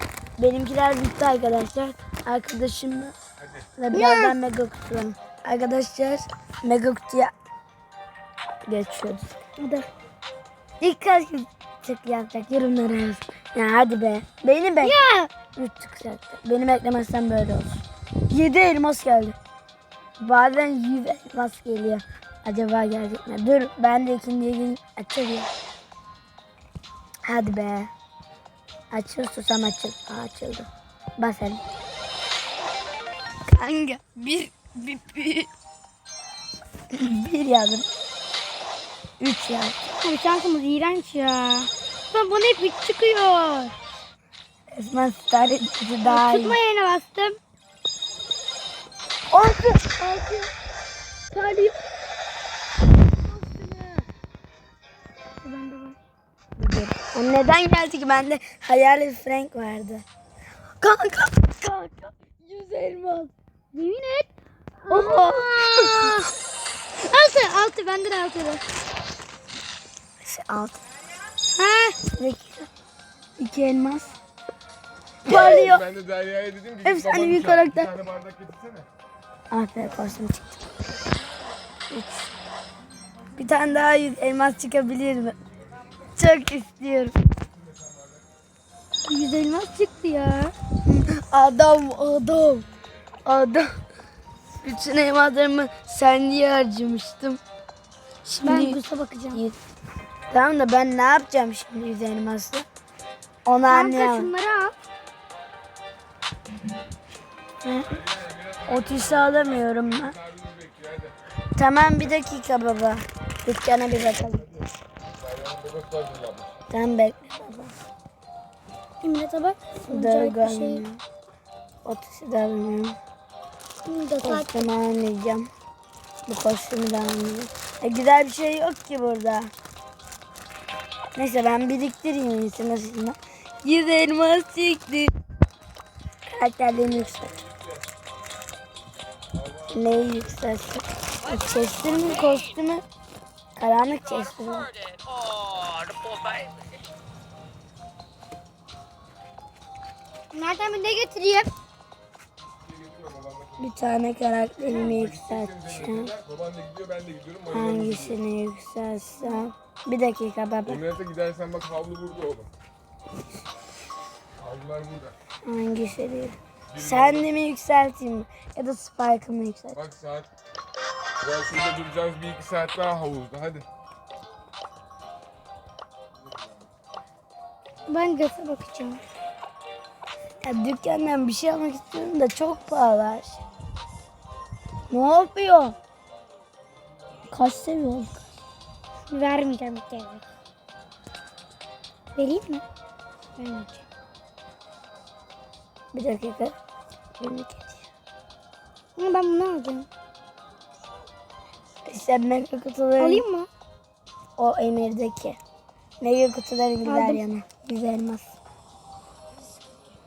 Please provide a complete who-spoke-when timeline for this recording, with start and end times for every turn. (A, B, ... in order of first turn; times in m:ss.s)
0:00.4-0:03.1 A
0:03.8-0:07.3 A
0:03.9-0:04.4 B
0:08.6-0:09.4 A
0:09.6-0:09.9 B
0:10.8-0:15.0 A
0:14.8-0:15.3 B
0:15.5-0:19.4 A
0:20.2-0:25.5 A
0:27.2-0:27.9 A
0:28.9-0:31.6 A
0:33.5-0:35.5 A
0:36.9-0:37.9 A
0:39.2-0:39.8 A
0:40.0-0:43.7 B
0:44.7-0:46.6 A
0:46.0-0:47.4 B
0:49.3-0:50.5 A
0:51.3-0:51.7 A
0:53.3-0:54.0 B
0:55.4-0:56.0 B
0:56.6-1:00.0 A
1:00.8-1:03.3 A
1:03.7-1:04.3 B
1:04.8-1:06.2 B
1:04.9-1:06.3 A
1:07.0-1:08.6 B
1:10.2-1:10.8 A
1:11.5-1:12.0 B
1:12.1-1:12.7 A
1:13.4-1:14.2 A
1:15.2-1:15.8 A
1:15.3-1:18.9 C
1:16.8-1:17.9 A
1:19.5-1:20.7 A
1:21.9-1:22.3 A
1:23.4-1:25.4 A
1:26.1-1:27.2 A
1:27.6-1:28.2 C
1:29.1-1:30.5 B
1:30.9-1:32.6 A
1:33.2-1:33.8 A
1:34.6-1:37.4 A
1:38.2-1:38.8 A
1:38.4-1:39.4 B
1:39.3-1:39.6 A
1:40.3-1:42.7 A
1:43.4-1:44.3 A
1:43.6-1:44.8 B
1:47.6-1:48.0 A
1:47.8-1:51.2 C
1:48.7-1:50.2 A
1:51.6-1:54.6 A
1:55.1-1:56.5 C
1:56.7-1:57.7 A
1:59.0-2:00.8 B
1:59.9-2:01.0 A
2:01.8-2:03.0 A
2:03.8-2:04.7 B
2:04.2-2:05.5 A
2:06.3-2:09.5 A
2:11.1-2:15.1 A
2:16.3-2:17.3 A
2:17.4-2:17.8 C
2:19.4-2:20.2 C
2:19.7-2:22.8 A
2:23.6-2:24.7 A
2:30.3-2:31.5 B
2:32.4-2:34.0 C
2:33.6-2:36.1 A
2:34.7-2:38.2 C
2:37.5-2:40.8 A
2:40.6-2:42.5 C
2:44.4-2:45.2 C
2:45.4-2:49.8 A
2:46.7-2:47.4 C
2:49.7-2:50.3 C
2:51.2-2:53.7 C
2:57.9-2:59.0 B
3:00.4-3:03.4 A
3:04.9-3:05.8 A
3:07.3-3:08.2 A
3:09.1-3:10.2 B
3:12.1-3:12.6 B
3:13.4-3:13.8 B
3:15.9-3:16.5 A
3:17.2-3:17.8 A
3:19.0-3:19.9 B
3:21.8-3:23.2 A
3:23.0-3:23.5 B
3:24.4-3:25.4 A
3:26.0-3:28.4 A
3:26.8-3:27.2 B